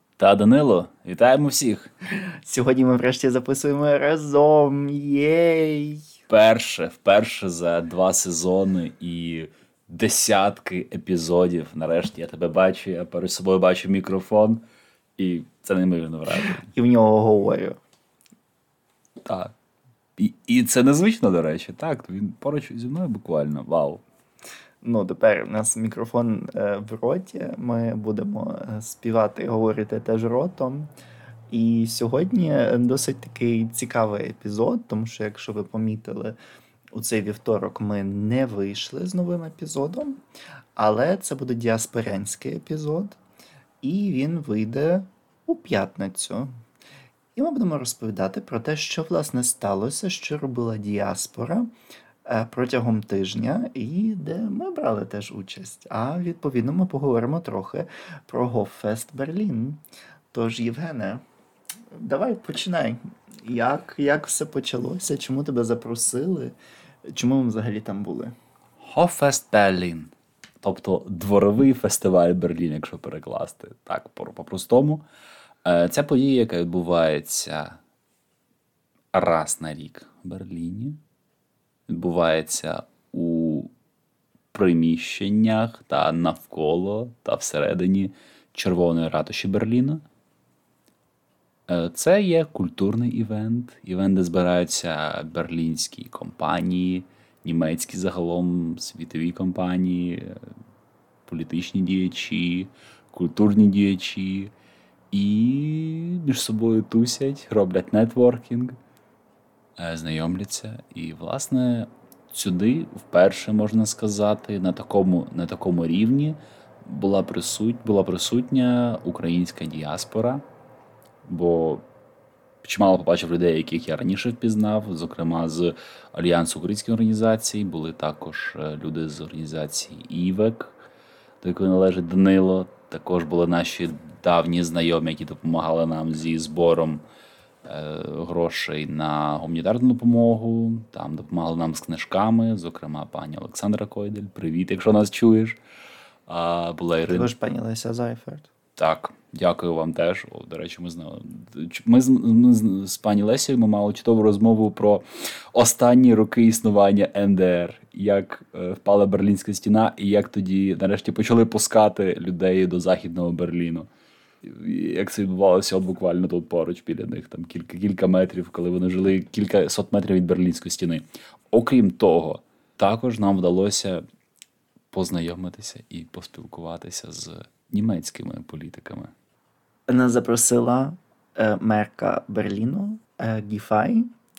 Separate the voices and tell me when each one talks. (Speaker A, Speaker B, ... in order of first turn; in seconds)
Speaker A: 0.2-1.9, 6.3-14.6, 15.2-16.7, 19.2-19.5, 20.2-24.0, 68.8-75.0, 75.6-77.8, 79.1-81.0, 81.9-83.7, 84.5-90.0, 91.7-100.5, 101.3-104.5, 105.1-108.8, 109.8-120.4, 121.2-121.8, 122.6-130.8, 131.4-137.0, 137.6-145.6, 146.3-147.3, 148.8-163.9, 164.4-174.0, 174.9-179.1
Speaker B: 2.4-6.1, 16.5-17.8, 24.8-30.9, 31.5-36.4, 36.9-40.2, 40.8-43.2, 43.8-46.5, 47.4-51.7, 52.3-59.8, 60.3-61.2, 61.9-66.6, 67.1-68.3, 147.0-148.5, 179.9-184.1